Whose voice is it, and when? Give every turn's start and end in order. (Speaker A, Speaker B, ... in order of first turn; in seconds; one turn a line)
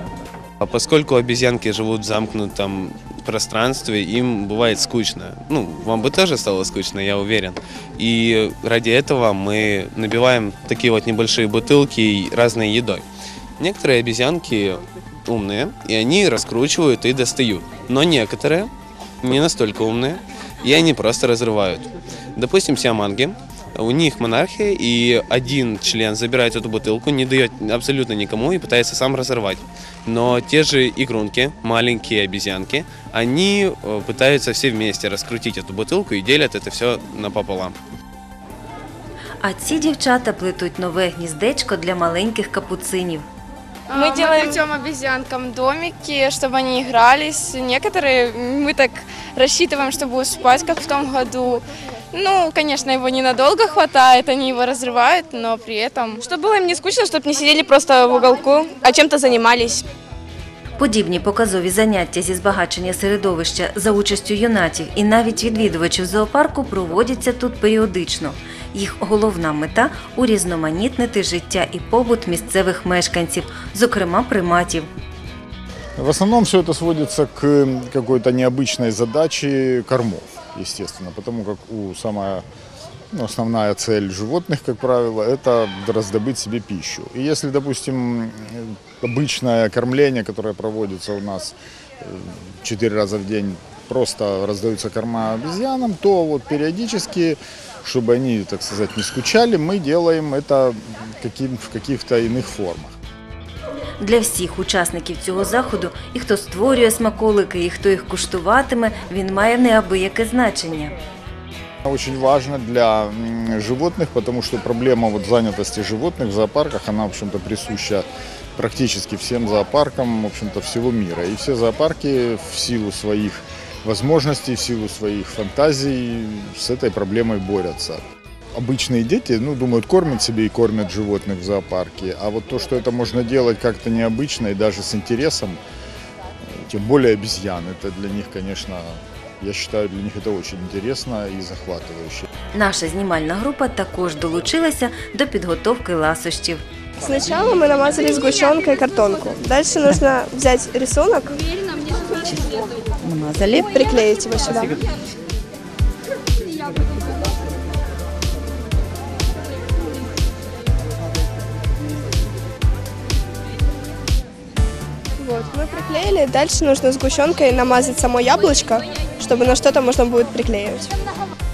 Speaker A: 0.6-13.1
Speaker A: 13.6-18.7
Speaker A: 19.2-37.8
Speaker B: 39.4-43.2
Speaker C: 43.9-59.9
Speaker D: 43.9-44.6
Speaker B: 60.8-74.9
Speaker E: 76.0-82.4
Speaker E: 83.1-103.0
Speaker B: 104.0-110.9
Speaker E: 111.9-128.0
Speaker E: 128.6-135.6
Speaker E: 136.5-142.3
Speaker B: 142.5-146.6
Speaker D: 147.0-151.4
Speaker B: 153.0-153.7
Speaker D: 153.7-154.8
Speaker D: 165.2-170.9